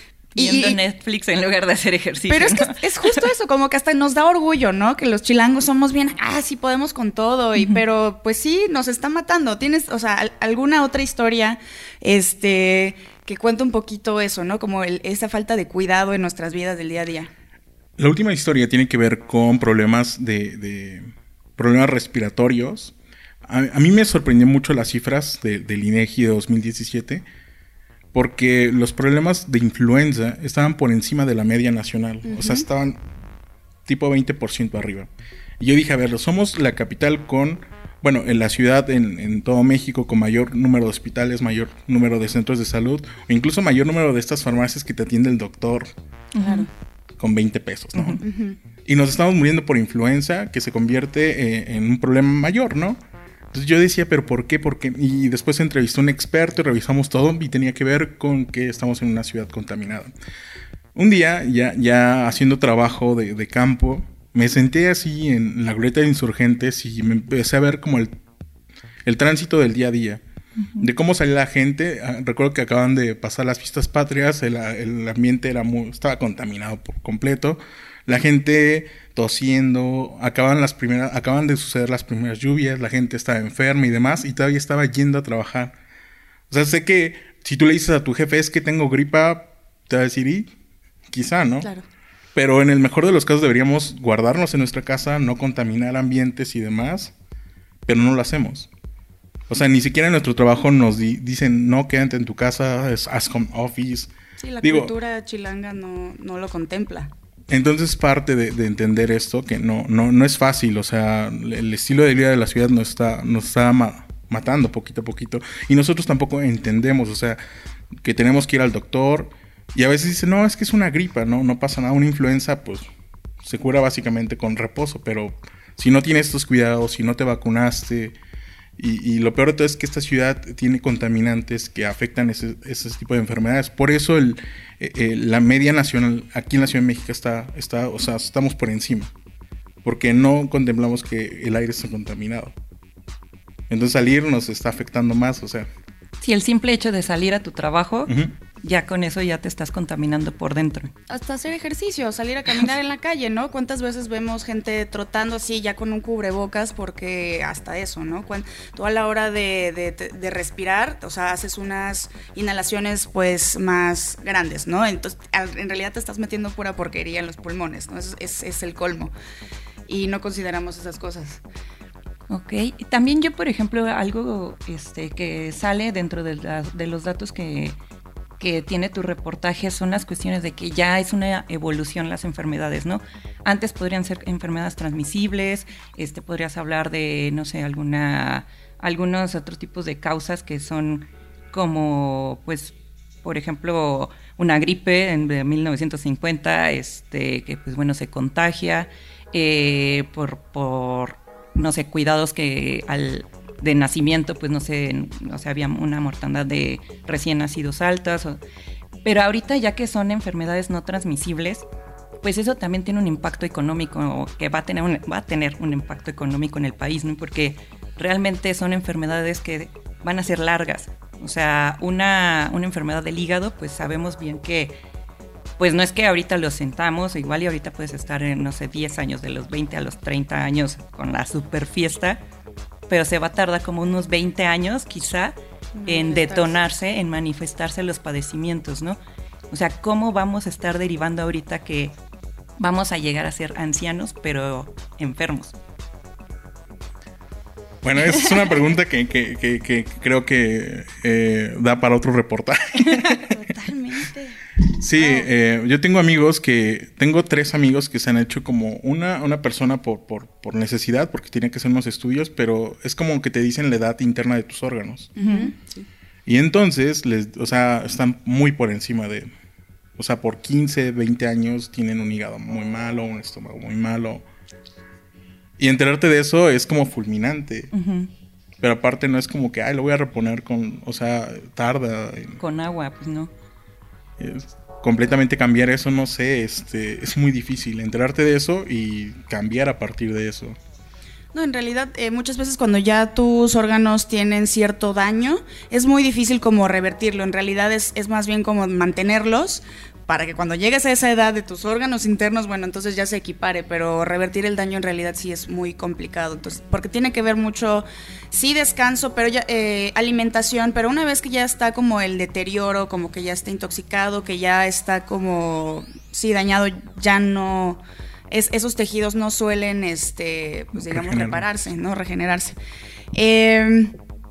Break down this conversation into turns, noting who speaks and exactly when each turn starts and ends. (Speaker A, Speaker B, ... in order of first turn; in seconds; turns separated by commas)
Speaker A: 0.3-0.8, Speaker B: 0.3-3.2, Speaker A: 2.3-17.3, Speaker C: 18.0-27.2, Speaker C: 28.1-33.0, Speaker A: 32.2-32.7, Speaker C: 33.9-45.9, Speaker B: 46.4-46.7, Speaker A: 46.4-46.7, Speaker C: 47.2-48.2, Speaker A: 48.0-48.6, Speaker C: 48.9-53.0, Speaker C: 53.5-60.1, Speaker C: 61.0-68.2, Speaker C: 69.0-70.2, Speaker C: 70.8-85.7, Speaker C: 86.5-90.5, Speaker C: 91.1-91.7, Speaker C: 92.3-97.1, Speaker C: 97.9-98.7, Speaker C: 99.5-104.1, Speaker A: 104.4-107.1, Speaker C: 104.6-104.9, Speaker C: 107.5-117.4, Speaker C: 118.0-122.9, Speaker C: 123.4-128.2, Speaker C: 128.8-139.1, Speaker C: 139.8-142.6, Speaker C: 143.7-145.7, Speaker B: 146.2-150.9, Speaker C: 148.1-148.3, Speaker A: 151.1-169.1, Speaker A: 169.9-171.4, Speaker B: 172.3-177.8, Speaker B: 178.4-208.4, Speaker B: 209.0-211.7, Speaker B: 212.2-224.8, Speaker B: 225.6-232.2, Speaker B: 232.9-235.3, Speaker A: 235.8-236.6, Speaker B: 235.9-239.0, Speaker B: 239.5-242.0, Speaker B: 242.6-245.6, Speaker C: 247.8-253.3, Speaker A: 253.1-254.4, Speaker C: 254.8-265.1, Speaker A: 254.9-255.3, Speaker A: 265.2-265.8, Speaker B: 265.2-265.5, Speaker C: 266.3-269.3, Speaker C: 270.0-274.2, Speaker C: 275.6-277.7, Speaker B: 277.7-278.1, Speaker C: 278.6-282.4, Speaker B: 282.4-283.3, Speaker C: 284.2-290.6, Speaker A: 291.3-322.6, Speaker C: 320.8-321.4, Speaker A: 323.1-323.9